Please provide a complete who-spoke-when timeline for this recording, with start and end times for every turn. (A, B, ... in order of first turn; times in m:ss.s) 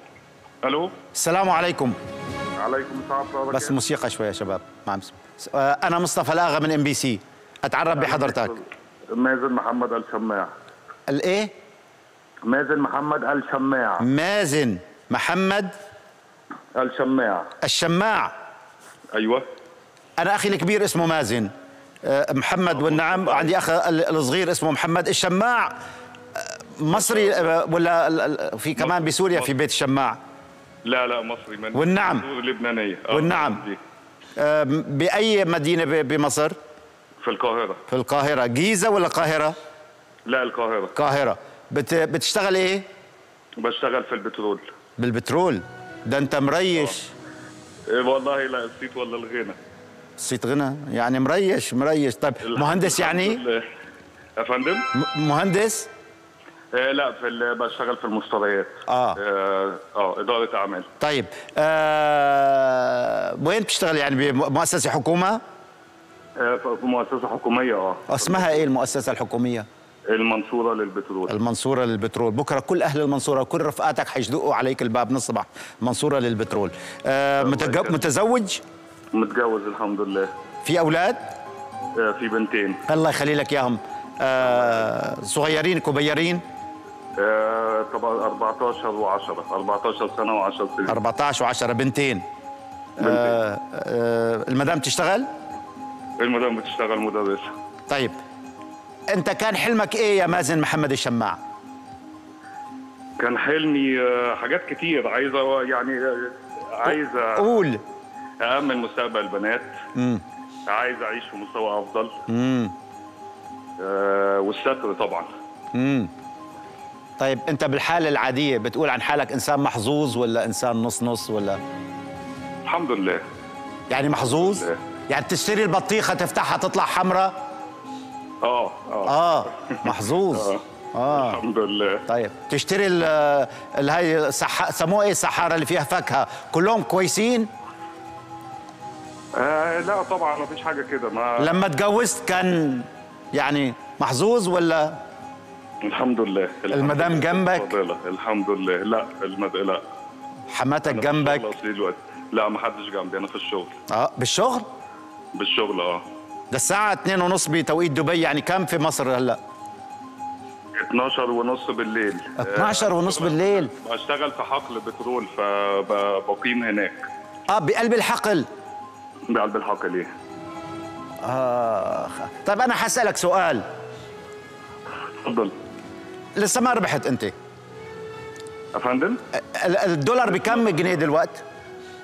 0:00.6-0:00.9 A
0:01.2-0:02.0 B
0:02.6-0:03.8 A
0:03.5-0:08.6 B
0:07.9-0:10.5 A
0:11.1-0:11.5 B
0:12.4-0:14.1 A
0:14.0-0:15.7 B
0:16.8-0:17.5 A
0:17.6-0:18.3 B
0:19.1-0:19.4 A
0:20.2-0:21.5 B
0:22.0-0:25.7 B
0:22.7-0:23.6 A
0:26.4-0:30.2 B
0:26.9-0:27.5 A
0:28.8-0:29.5 A
0:30.8-0:33.8 A
0:31.7-0:32.3 B
0:33.1-0:33.6 B
0:34.4-0:36.6 B
0:37.2-0:37.8 A
0:37.9-0:39.6 B
0:40.3-0:41.0 A
0:41.0-0:42.8 B
0:43.6-0:44.7 A
0:45.0-0:47.1 B
0:47.9-0:49.6 A
0:50.2-0:53.4 B
0:52.4-0:53.6 A
0:54.4-0:54.9 A
0:54.9-0:55.9 B
0:56.7-1:00.9 A
0:58.9-0:59.2 B
1:01.0-1:05.4 B
1:06.4-1:08.7 A
1:08.1-1:09.7 B
1:10.1-1:11.4 A
1:11.3-1:18.6 B
1:17.4-1:18.1 A
1:19.1-1:20.3 A
1:20.6-1:21.2 B
1:22.0-1:22.8 A
1:22.9-1:26.4 B
1:24.4-1:24.9 A
1:27.2-1:31.0 A
1:30.9-1:32.2 B
1:33.0-1:35.3 B
1:33.0-1:33.4 A
1:36.2-1:37.5 A
1:39.1-1:41.4 B
1:43.2-1:47.6 A
1:47.4-1:47.8 B
1:48.4-1:49.7 A
1:50.0-1:50.2 B
1:50.7-1:52.2 A
1:52.3-1:52.7 B
1:53.8-1:55.3 A
1:55.7-1:56.1 B
1:57.2-2:01.6 B
2:02.6-2:03.2 A
2:03.9-2:07.3 B
2:04.1-2:04.8 A
2:08.4-2:12.0 A
2:09.1-2:11.4 B
2:12.1-2:17.5 B
2:19.4-2:21.5 A
2:21.4-2:25.0 B
2:25.8-2:29.8 A
2:26.7-2:27.7 B
2:30.5-2:31.4 B
2:30.9-2:33.8 A
2:33.9-2:34.7 B
2:35.4-2:36.0 A
2:36.5-2:39.4 B
2:40.8-2:47.0 A
2:42.4-2:43.7 B
2:47.5-2:48.5 B
2:49.3-2:50.1 A
2:51.2-2:53.6 B
2:55.2-2:55.5 A
2:56.4-2:57.3 B
2:58.7-2:59.2 A
2:59.6-3:01.4 B
3:00.3-3:00.9 A